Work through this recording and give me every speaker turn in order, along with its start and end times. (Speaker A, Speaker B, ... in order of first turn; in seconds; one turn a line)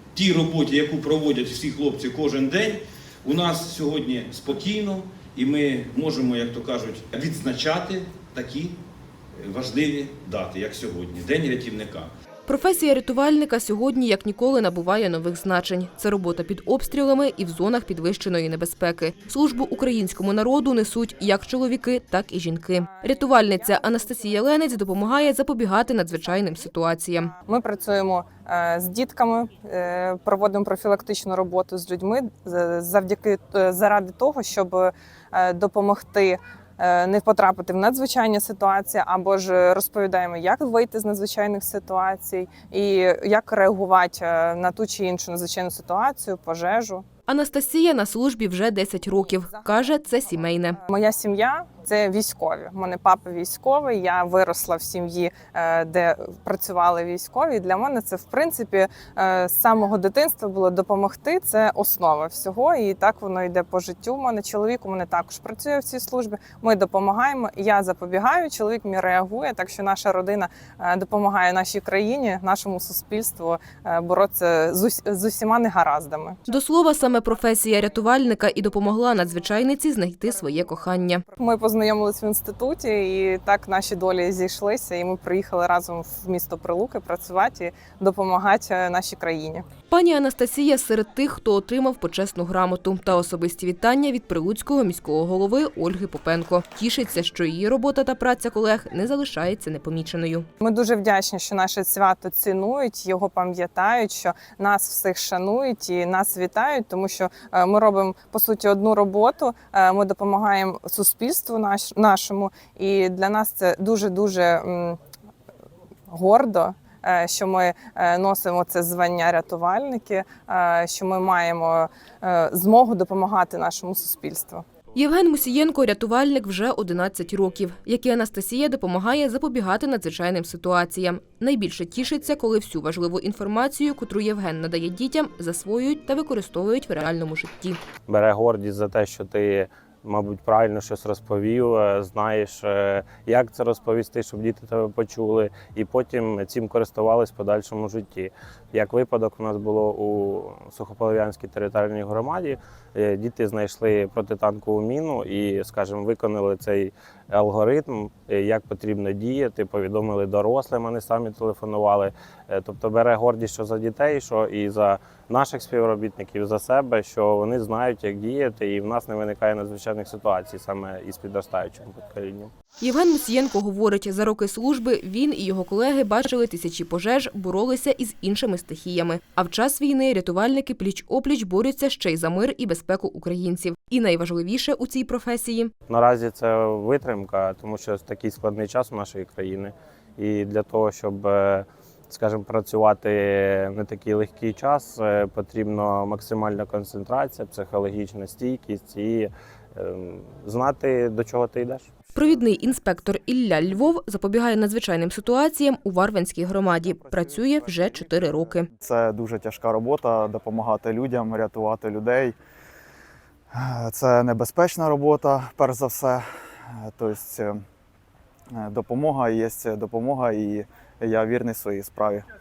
Speaker A: 0.2-8.7
Speaker A: 9.4-12.1
Speaker B: 12.5-27.3
Speaker C: 23.0-24.1
Speaker C: 27.4-47.0
Speaker B: 47.3-50.8
Speaker C: 49.5-50.1
Speaker C: 50.9-76.4
Speaker B: 76.5-81.2
Speaker C: 81.3-89.7
Speaker B: 89.9-100.5
Speaker C: 100.6-115.0
Speaker C: 116.1-124.6
Speaker B: 125.0-137.8
Speaker D: 138.1-172.5
Speaker B: 172.8-185.7
Speaker D: 185.9-201.9
Speaker B: 202.1-208.7
Speaker E: 206.8-212.3
Speaker E: 213.5-216.2
Speaker E: 216.9-217.6
Speaker E: 218.6-222.3